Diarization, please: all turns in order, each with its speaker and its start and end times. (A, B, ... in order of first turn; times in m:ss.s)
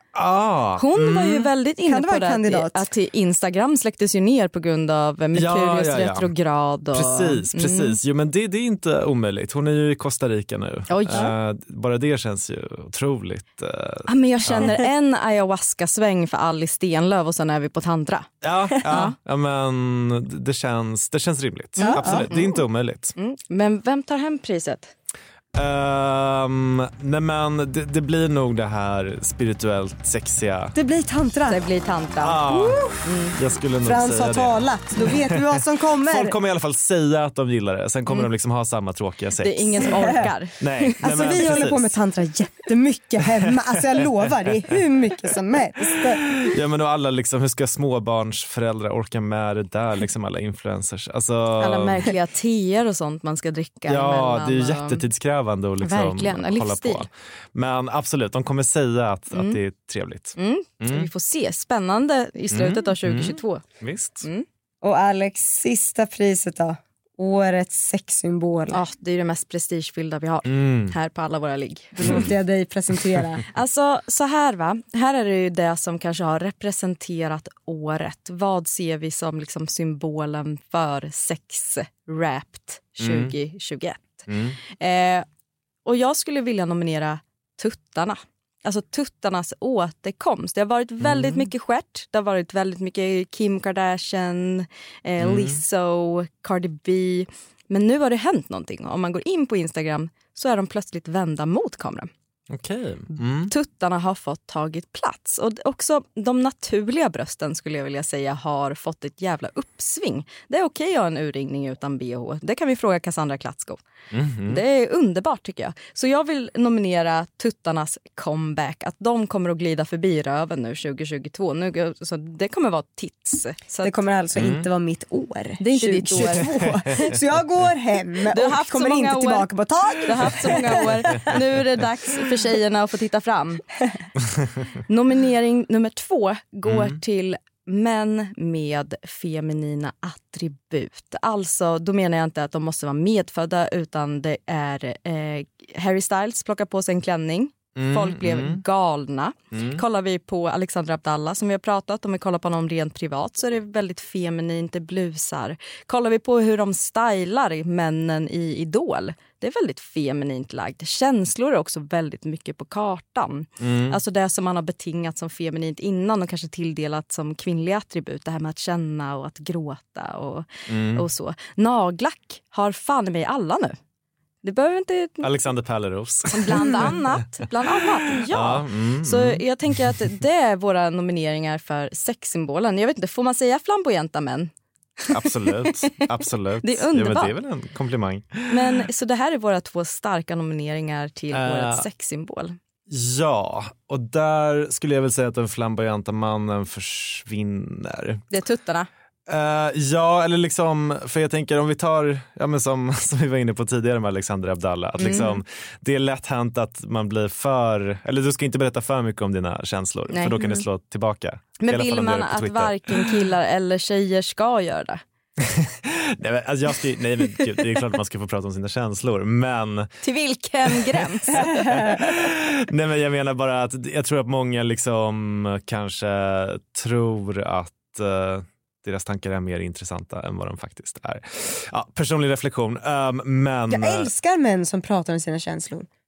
0:00.1-0:01.5 A
0:00.8-0:08.0 B
0:01.8-0:02.9 C
0:05.3-0:06.3 A
0:06.9-0:14.8 A
0:10.9-0:11.3 B
0:14.1-0:18.3 B
0:18.4-0:23.1 A
0:18.8-0:19.1 B
0:21.8-0:22.6 B
0:21.8-0:22.3 C
0:23.2-0:24.9 B
0:25.5-0:30.7 A
0:30.7-0:31.6 C
0:31.5-0:32.4 B
0:32.2-0:41.9 A
0:32.5-0:33.0 C
0:33.0-0:33.4 B
0:33.8-0:36.4 C
0:39.4-0:41.6 B
0:39.8-0:40.2 C
0:41.0-0:46.4 C
0:46.2-0:52.1 A
0:51.6-0:55.0 B
0:53.9-1:01.1 A
0:55.8-0:57.0 B
0:59.3-0:59.6 B
1:00.4-1:03.6 B
1:02.5-1:04.2 A
1:04.8-1:08.8 C
1:08.7-1:12.2 B
1:10.4-1:10.9 A
1:12.0-1:13.4 C
1:12.0-1:12.3 A
1:13.5-1:25.2 B
1:23.0-1:23.3 A
1:24.3-1:24.6 A
1:25.8-1:42.1 B
1:31.0-1:31.5 A
1:35.2-1:35.6 A
1:42.5-1:43.5 A
1:43.5-1:53.8 B
1:54.1-1:54.6 A
1:54.4-2:03.9 B
2:03.8-2:11.2 C
2:04.4-2:04.7 A
2:05.6-2:06.5 B
2:08.3-2:09.5 B
2:10.0-2:13.6 B
2:14.9-2:53.8 B
2:16.6-2:17.0 A
2:27.8-2:28.6 A
2:29.5-2:29.8 A
2:43.6-2:44.0 A
2:50.7-2:51.0 A
2:54.4-2:55.3 B
2:55.2-2:57.2 A
2:56.3-3:04.5 B
2:58.3-2:59.9 A
3:05.0-3:06.1 B
3:05.1-3:08.8 A
3:06.6-3:07.3 B
3:08.5-3:12.6 B
3:11.3-3:11.9 A
3:12.9-3:18.2 A
3:18.3-3:18.9 B
3:19.3-3:33.2 A
3:25.0-3:25.4 B
3:30.1-3:30.6 B
3:31.6-3:35.0 B
3:35.4-3:39.9 A
3:40.0-3:41.6 B
3:40.7-3:54.1 A
3:53.7-3:55.9 C